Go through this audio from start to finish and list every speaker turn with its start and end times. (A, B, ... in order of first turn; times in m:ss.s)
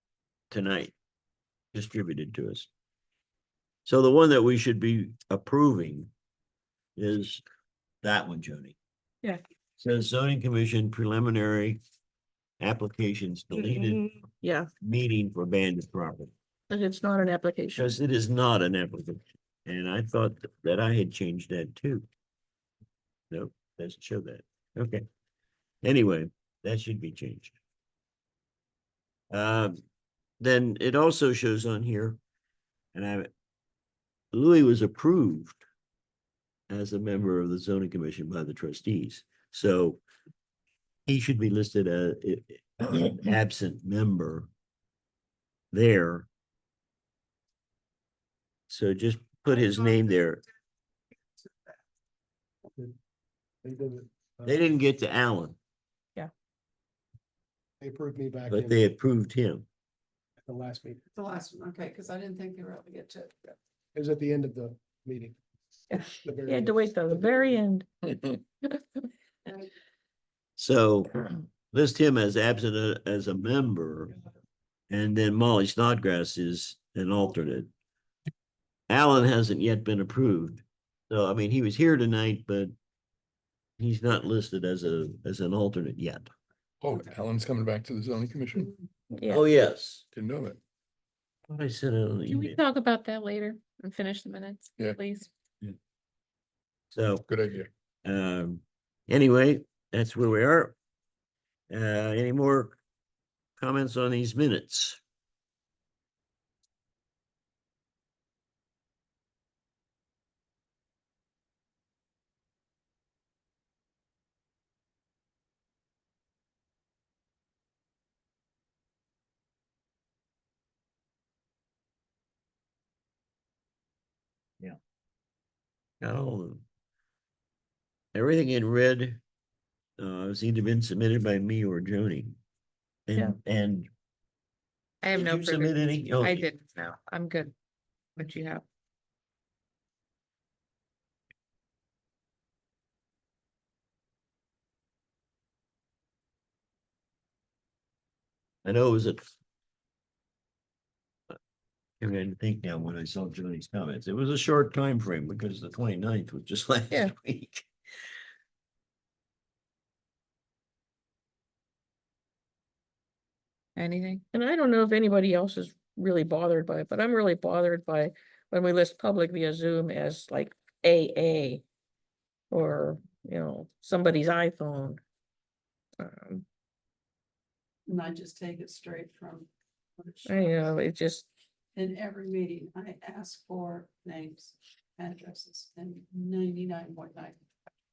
0:00.5-0:00.9 A
0:01.7-0:02.7 A
0:03.8-0:06.1 A
0:07.0-0:07.4 A
0:08.0-0:08.8 A
0:09.8-0:11.8 A
0:12.6-0:14.0 A
0:13.5-0:14.7 B
0:14.8-0:16.3 A
0:16.7-0:17.9 B
0:17.7-0:22.0 A
0:23.3-0:25.0 A
0:25.8-0:27.6 A
0:29.3-0:29.8 A
0:30.4-0:32.2 A
0:32.9-0:33.3 A
0:34.3-0:35.6 A
0:36.7-0:40.0 A
0:41.1-0:44.5 A
0:45.7-0:46.3 A
0:48.7-0:50.4 A
0:51.3-0:51.8 C
0:53.6-0:54.6 D
0:54.4-0:55.6 A
0:57.8-0:58.8 D
0:58.5-0:59.6 A
1:00.4-1:01.0 D
1:01.1-1:03.5 C
1:03.9-1:05.4 D
1:05.9-1:08.1 B
1:06.2-1:07.6 D
1:09.4-1:09.7 C
1:10.6-1:14.1 A
1:14.9-1:17.7 A
1:18.9-1:22.7 A
1:23.8-1:26.3 A
1:26.8-1:28.7 E
1:29.1-1:29.4 B
1:29.3-1:30.0 A
1:30.1-1:30.6 E
1:31.5-1:32.6 A
1:32.3-1:35.3 F
1:36.9-1:37.2 A
1:37.3-1:37.7 E
1:38.0-1:40.8 A
1:41.7-1:42.8 A
1:43.6-1:45.0 A
2:06.0-2:06.6 A
2:08.1-2:09.2 A
2:10.0-2:12.4 A
2:13.1-2:13.9 A
2:15.0-2:17.5 F
2:15.1-2:16.4 A
2:18.2-2:18.6 F
2:28.6-2:29.3 A
2:32.0-2:37.7 A
2:43.8-2:44.2 F
2:44.3-2:51.6 B
2:52.5-2:55.0 B
2:56.0-2:56.4 B
2:57.9-3:00.7 C
3:00.2-3:01.3 B
3:01.7-3:07.4 C